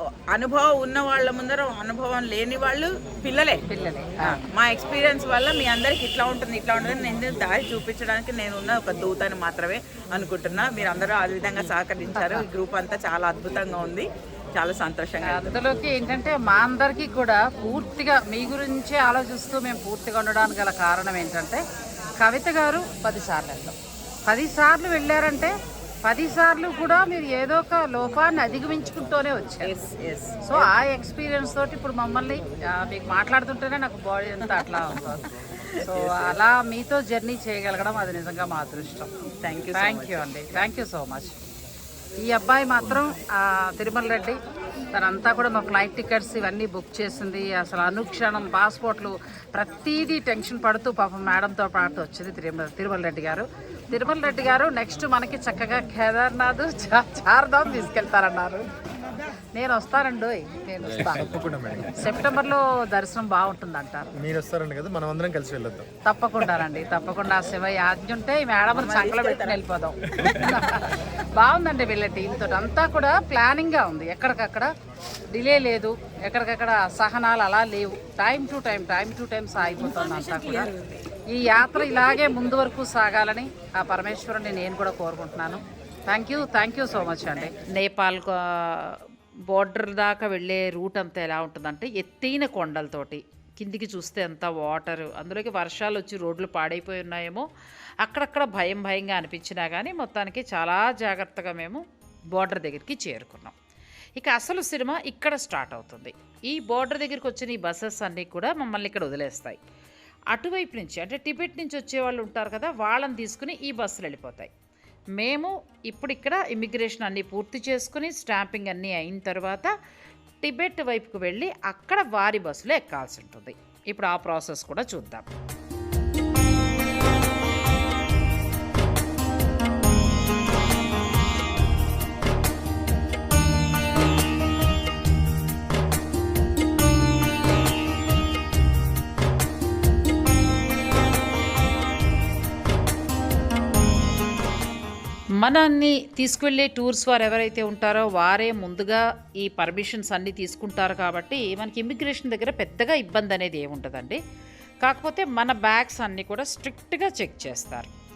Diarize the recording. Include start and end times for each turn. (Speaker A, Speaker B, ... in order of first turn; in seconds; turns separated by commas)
Speaker A: 0.3-3.6, Speaker B: 3.7-4.5, Speaker A: 4.3-15.6, Speaker B: 12.2-12.5, Speaker B: 15.3-21.6, Speaker B: 22.2-23.8, Speaker B: 24.3-25.5, Speaker B: 26.1-29.7, Speaker A: 29.6-30.7, Speaker B: 30.4-35.3, Speaker A: 35.8-36.4, Speaker B: 35.8-39.1, Speaker A: 39.4-40.3, Speaker B: 39.7-41.4, Speaker B: 42.2-44.4, Speaker B: 44.9-58.6, Speaker B: 59.5-61.3, Speaker C: 61.0-62.0, Speaker B: 61.9-64.1, Speaker C: 64.2-65.9, Speaker B: 66.1-74.7, Speaker A: 68.7-69.6, Speaker B: 75.3-80.7, Speaker A: 79.8-81.0, Speaker B: 81.3-97.5, Speaker B: 98.0-101.8, Speaker B: 102.3-103.5, Speaker B: 104.2-109.6, Speaker B: 110.3-114.5, Speaker B: 115.2-119.7, Speaker B: 120.4-125.3, Speaker B: 145.4-154.2, Speaker B: 154.8-157.9